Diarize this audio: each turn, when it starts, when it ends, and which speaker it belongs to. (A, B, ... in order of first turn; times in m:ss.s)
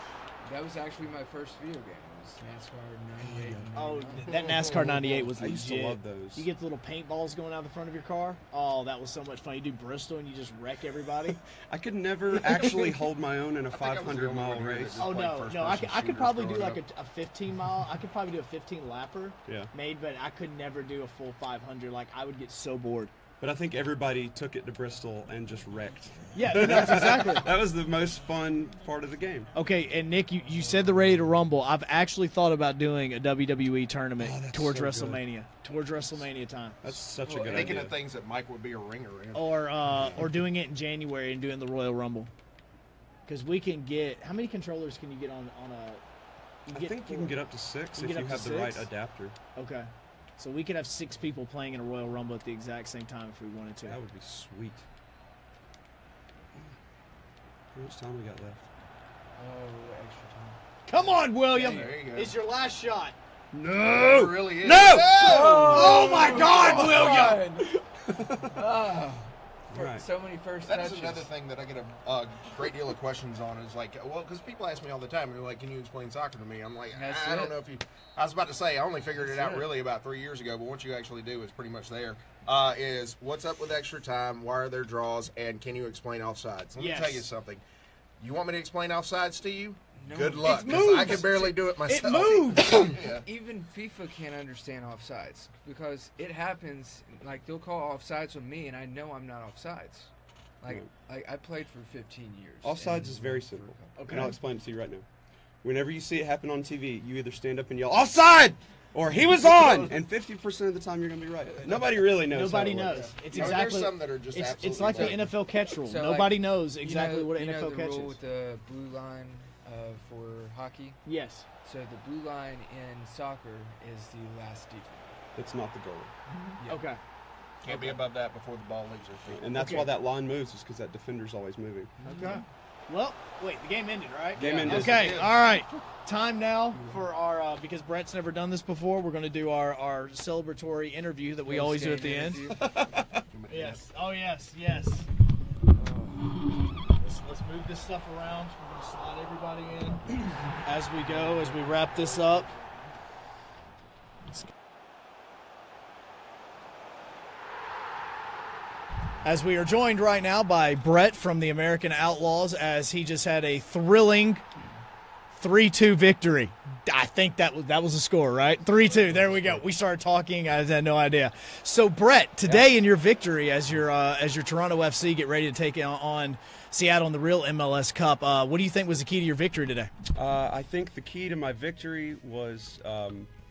0:00.4-0:04.6 A
0:03.2-0:03.7 B
0:03.8-0:11.4 C
0:04.8-0:06.5 B
0:11.7-0:15.0 B
0:12.5-0:12.8 C
0:13.7-0:16.8 D
0:15.0-0:23.1 C
0:23.4-0:29.5 B
0:26.3-0:27.5 C
0:29.6-0:36.8 C
0:34.2-0:35.2 B
0:36.8-0:38.0 B
0:37.2-0:37.8 A
0:37.4-0:40.3 D
0:39.3-0:42.3 C
0:43.3-0:46.0 C
0:46.7-0:47.4 C
0:46.7-0:49.4 B
0:48.0-0:48.9 C
0:49.6-0:54.0 C
0:53.9-0:54.8 B
0:57.7-0:58.7 B
0:59.4-1:00.6 A
1:00.9-1:03.2 C
1:01.5-1:02.3 D
1:03.5-1:07.3 B
1:03.8-1:06.8 D
1:05.0-1:07.8 A
1:05.6-1:07.4 C
1:08.1-1:08.6 B
1:08.4-1:11.3 A
1:09.7-1:10.0 B
1:10.6-1:27.6 D
1:16.9-1:17.6 A
1:19.2-1:19.7 A
1:26.8-1:27.3 C
1:28.2-1:33.2 D
1:30.0-1:31.3 A
1:30.4-1:32.9 C
1:32.6-1:44.4 A
1:42.6-1:45.1 B
1:44.0-1:44.4 C
1:45.6-1:53.5 B
1:52.3-1:58.2 C
1:52.8-1:55.3 D
1:55.8-2:01.1 A
2:01.1-2:01.5 C
2:01.6-2:05.2 A
2:05.4-2:06.2 B
2:06.4-2:07.0 C
2:06.6-2:06.9 A
2:07.6-2:09.8 D
2:09.3-2:11.9 B
2:09.6-2:09.9 C
2:12.0-2:12.4 D
2:12.1-2:22.4 C
2:14.4-2:15.0 A
2:14.4-2:15.2 B
2:14.7-2:15.6 D
2:21.5-2:22.7 A
2:22.6-2:23.1 B
2:23.1-2:23.9 D
2:23.5-2:25.1 C
2:25.7-2:26.4 A
2:27.0-2:32.6 C
2:39.2-2:44.5 C
2:45.3-2:59.9 C
2:49.1-2:49.6 B
3:00.1-3:03.3 B